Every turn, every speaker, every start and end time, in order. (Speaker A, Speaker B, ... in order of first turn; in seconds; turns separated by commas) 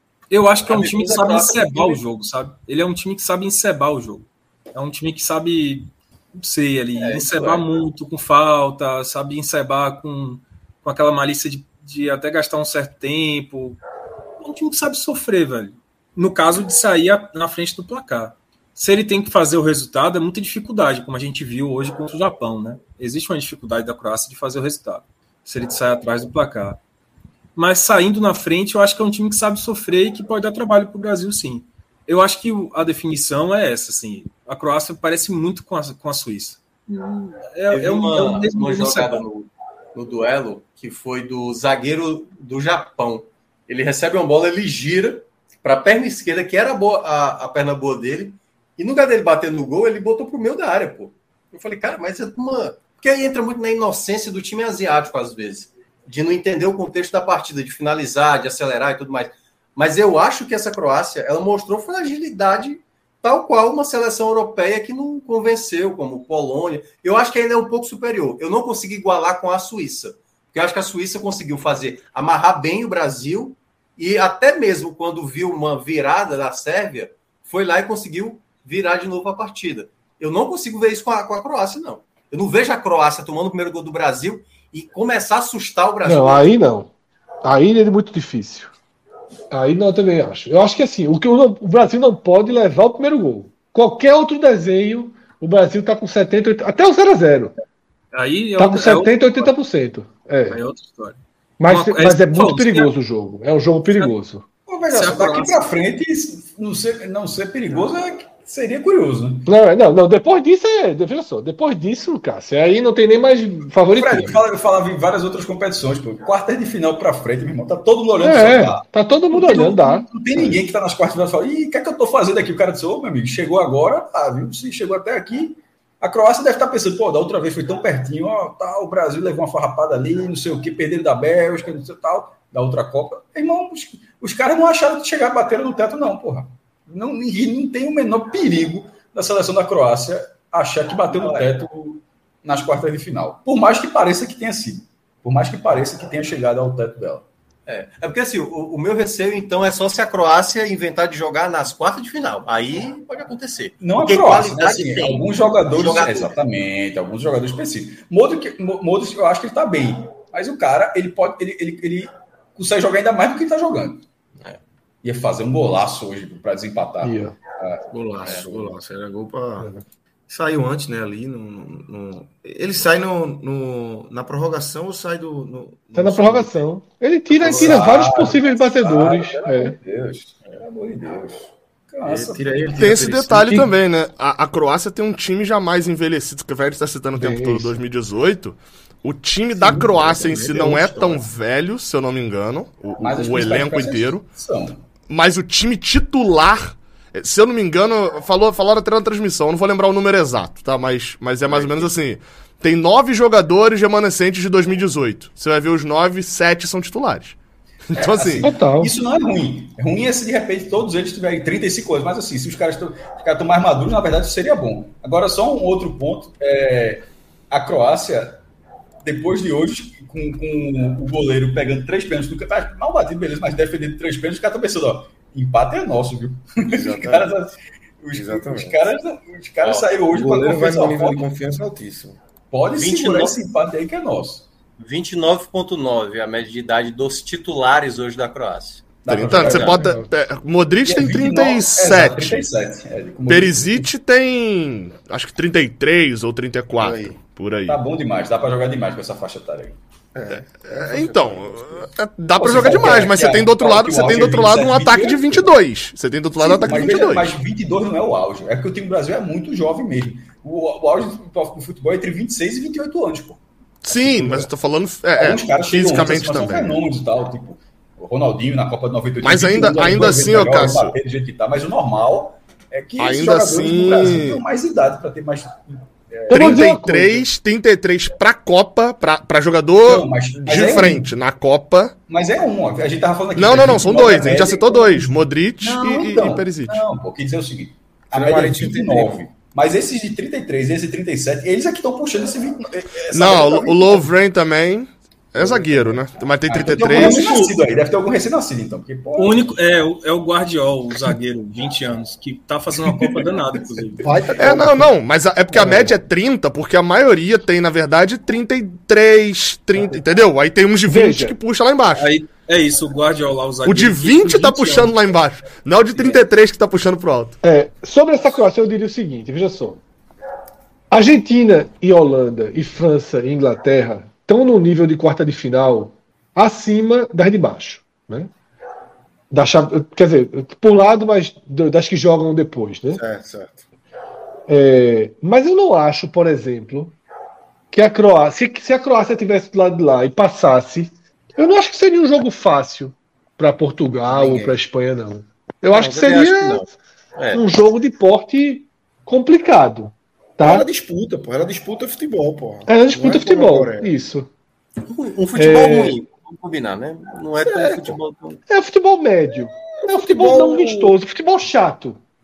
Speaker A: 0.3-13.8, Speaker B: 0.7-2.0, Speaker C: 7.0-7.6, Speaker A: 14.4-26.8, Speaker A: 27.6-39.2, Speaker B: 37.7-86.5, Speaker D: 86.0-86.9, Speaker D: 87.4-88.7, Speaker D: 89.5-97.5, Speaker A: 98.1-99.5, Speaker D: 98.6-100.6, Speaker A: 100.5-102.9, Speaker D: 101.6-104.4, Speaker C: 104.7-109.5, Speaker A: 104.9-105.6, Speaker D: 109.5-114.4, Speaker C: 113.9-147.2, Speaker D: 118.2-120.5, Speaker B: 141.1-141.5, Speaker B: 147.7-156.3, Speaker C: 153.8-164.0, Speaker C: 165.0-168.7, Speaker D: 167.0-167.3, Speaker E: 167.9-169.7, Speaker B: 168.2-168.5, Speaker E: 170.3-176.6, Speaker D: 175.9-179.8, Speaker E: 177.3-178.3, Speaker C: 177.5-182.8, Speaker E: 182.1-183.7, Speaker F: 182.8-194.2, Speaker D: 187.2-187.8, Speaker E: 189.6-191.2, Speaker C: 193.0-194.8, Speaker F: 195.1-207.4, Speaker C: 201.5-201.9, Speaker F: 207.9-208.5, Speaker C: 207.9-218.4, Speaker D: 208.4-208.9, Speaker C: 219.0-231.3, Speaker E: 226.7-227.3, Speaker E: 228.1-228.8, Speaker B: 229.6-230.0, Speaker E: 230.1-232.2, Speaker C: 232.5-234.5, Speaker B: 232.7-233.4, Speaker B: 234.8-239.8, Speaker C: 239.0-239.7, Speaker F: 239.1-242.4, Speaker D: 239.4-240.1, Speaker C: 240.8-243.9, Speaker F: 243.3-247.8, Speaker E: 246.8-247.2, Speaker C: 247.7-249.8, Speaker E: 250.2-251.9, Speaker F: 250.3-257.4, Speaker C: 252.4-255.5, Speaker C: 256.4-264.5, Speaker F: 263.8-266.8, Speaker C: 265.2-276.7, Speaker F: 269.2-270.9, Speaker F: 273.0-274.4, Speaker D: 276.3-277.3, Speaker F: 276.3-281.9, Speaker C: 279.8-281.1, Speaker D: 280.5-280.9, Speaker C: 282.1-294.1, Speaker F: 283.4-286.9, Speaker E: 288.1-289.2, Speaker F: 293.1-297.3, Speaker C: 296.5-299.5, Speaker A: 296.9-297.6, Speaker A: 299.2-304.0, Speaker C: 302.8-304.1, Speaker E: 304.0-304.9, Speaker F: 304.4-312.1, Speaker E: 305.6-305.9, Speaker D: 310.9-311.4, Speaker A: 312.0-314.9, Speaker F: 313.6-317.4, Speaker D: 317.4-319.8, Speaker D: 320.9-328.3, Speaker D: 329.3-333.0, Speaker E: 332.9-333.6, Speaker D: 334.5-336.9, Speaker D: 337.7-346.7, Speaker E: 344.1-344.6, Speaker B: 345.7-347.4, Speaker D: 347.3-350.7, Speaker E: 350.4-353.9, Speaker D: 352.7-354.3, Speaker B: 354.8-358.1, Speaker D: 355.4-356.0, Speaker E: 357.4-358.4, Speaker D: 358.5-362.0, Speaker E: 359.8-360.9